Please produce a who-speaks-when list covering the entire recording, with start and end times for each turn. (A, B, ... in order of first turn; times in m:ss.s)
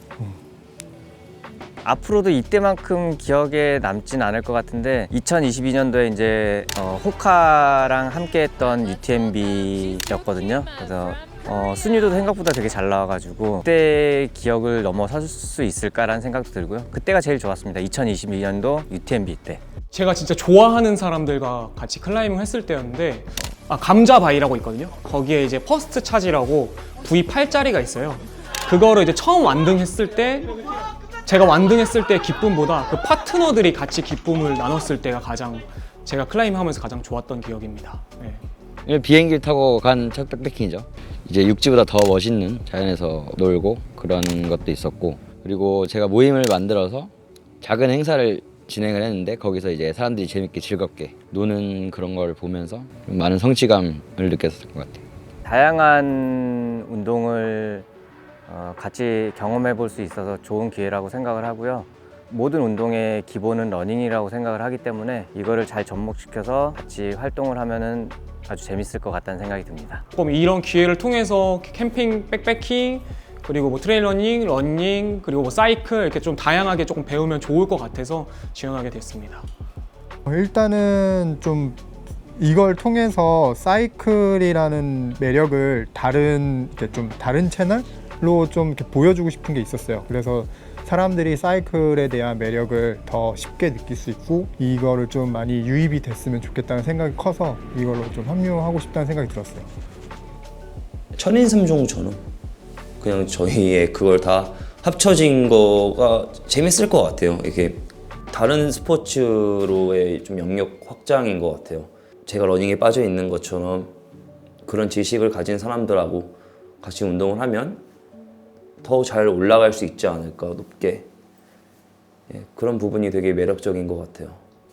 0:01.8-0:19.6 A
0:19.9-0:30.5 B
0:31.3-0:38.4 B
0:38.8-0:55.0 C
0:55.4-0:57.9 A
0:58.5-1:10.0 A
1:10.1-1:19.4 B
1:20.3-1:21.8 D
1:22.4-1:39.7 D
1:41.2-1:42.2 E
1:43.0-1:54.0 E
1:54.6-1:57.8 E
1:58.8-2:01.1 E
2:02.3-2:04.4 E